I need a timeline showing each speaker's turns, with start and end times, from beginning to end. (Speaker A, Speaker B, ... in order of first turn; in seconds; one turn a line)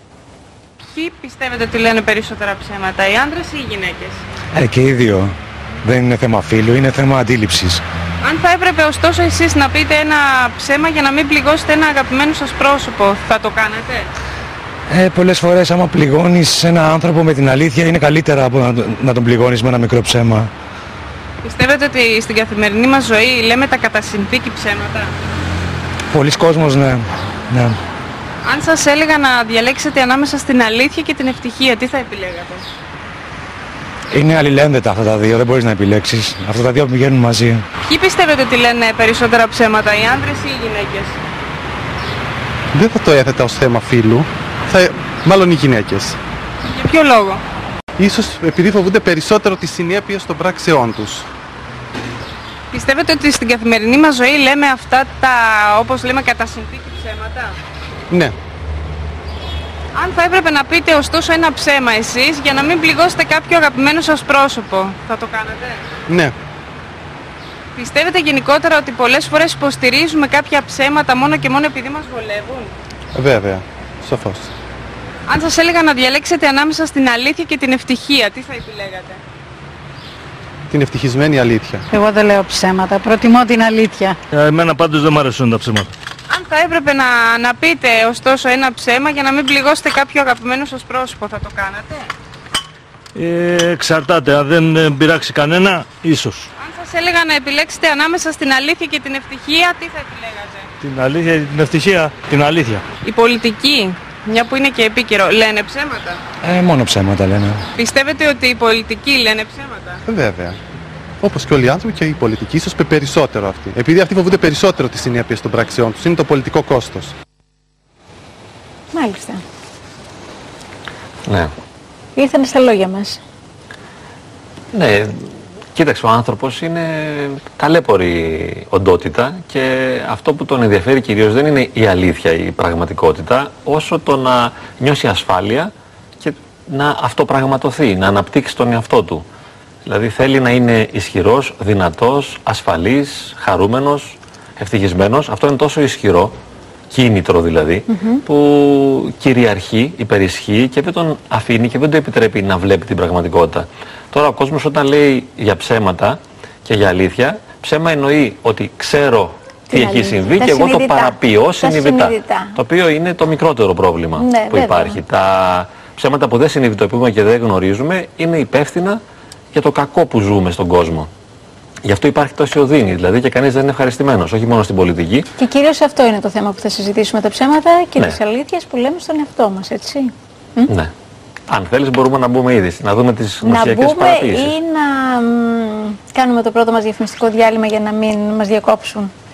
Speaker A: 0.9-4.2
Speaker B: 4.5-7.8
Speaker A: 8.2-14.1
Speaker B: 14.9-20.5
Speaker A: 21.4-25.1
Speaker B: 26.1-27.8
Speaker A: 28.4-32.6
Speaker B: 34.1-37.6
Speaker A: 37.9-41.1
Speaker C: 42.7-46.2
Speaker A: 46.7-47.4
Speaker C: 48.0-51.2
Speaker A: 52.7-57.5
Speaker C: 58.1-58.4
Speaker A: 59.9-65.8
Speaker C: 66.1-66.3
Speaker A: 67.8-72.7
Speaker C: 73.1-74.5
Speaker A: 75.3-79.2
Speaker C: 80.7-81.8
Speaker D: 81.9-84.2
Speaker E: 84.3-85.9
Speaker A: 86.3-92.1
Speaker E: 93.1-96.5
Speaker A: 96.6-100.7
Speaker E: 100.8-102.8
Speaker A: 103.0-106.2
Speaker B: 106.4-107.6
Speaker A: 107.8-110.0
Speaker C: 110.1-110.6
Speaker C: 111.2-117.1
Speaker F: 118.9-119.4
Speaker G: 121.2-121.5
Speaker F: 122.1-123.2
Speaker G: 124.7-139.2
Speaker G: 139.8-146.3
Speaker G: 146.9-169.0
Speaker F: 147.9-148.2
Speaker F: 159.7-162.6
Speaker F: 164.2-165.0
Speaker G: 169.5-171.1
Speaker G: 171.8-175.3
Speaker F: 175.4-180.7
Speaker G: 181.5-184.6
Speaker F: 183.4-189.1